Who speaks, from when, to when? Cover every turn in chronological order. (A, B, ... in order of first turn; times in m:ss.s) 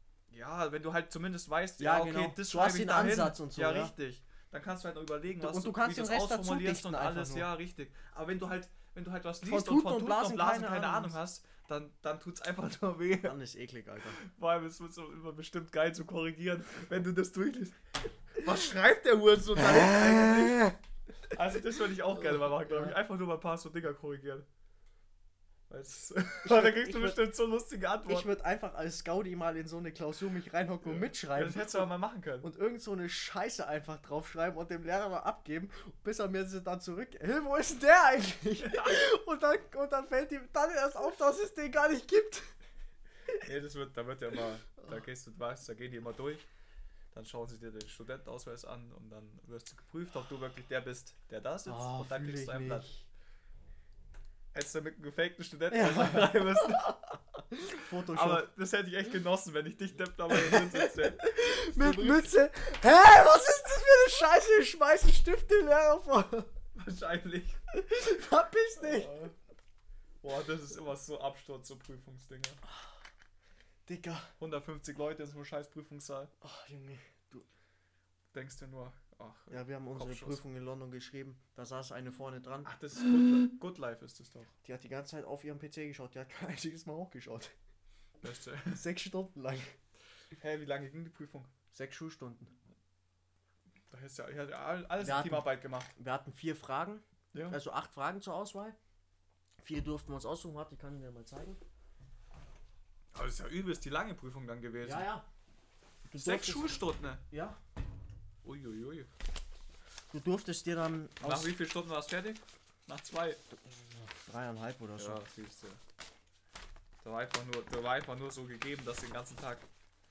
0:00.3-0:13.4 A
0:01.8-0:03.9 B
0:05.3-0:07.5 B
0:09.4-0:11.2 B
0:13.2-0:14.2 B
0:14.2-0:17.8 A
0:18.3-0:20.7 A
0:19.6-0:20.8 B
0:21.3-0:24.5 A
0:22.4-0:23.0 B
0:25.7-0:28.3 A
0:26.4-0:27.2 B
0:28.1-0:42.5 B
0:30.8-0:32.5 A
0:38.6-0:39.0 A
0:43.4-0:46.5 A
0:47.1-0:52.9 A
0:51.7-0:53.1 B
0:54.5-0:57.2 A
0:55.7-0:56.7 B
0:57.5-0:58.4 B
0:57.8-1:02.3 A
1:00.3-1:06.5 B
1:06.8-1:07.6 A
1:07.7-1:09.2 B
1:08.8-1:09.3 A
1:10.2-1:12.6 A
1:13.9-1:14.3 B
1:14.4-1:16.3 A
1:16.4-1:17.5 B
1:18.3-1:20.4 A
1:19.5-1:22.7 B
1:22.6-1:24.5 A
1:24.6-1:27.5 B
1:28.2-1:28.8 A
1:28.7-1:29.8 B
1:30.4-1:31.5 A
1:31.7-1:32.5 B
1:33.9-1:35.9 A
1:35.0-1:38.8 B
1:37.3-1:37.6 A
1:39.6-1:41.6 B
1:43.1-1:45.1 A
1:44.8-1:45.3 B
1:46.1-1:46.8 B
1:46.2-1:47.2 A
1:47.3-1:47.6 B
1:48.4-1:49.1 A
1:50.1-1:51.6 B
1:51.2-1:53.4 A
1:53.5-1:55.2 B
1:55.0-1:55.8 A
1:57.0-1:59.7 A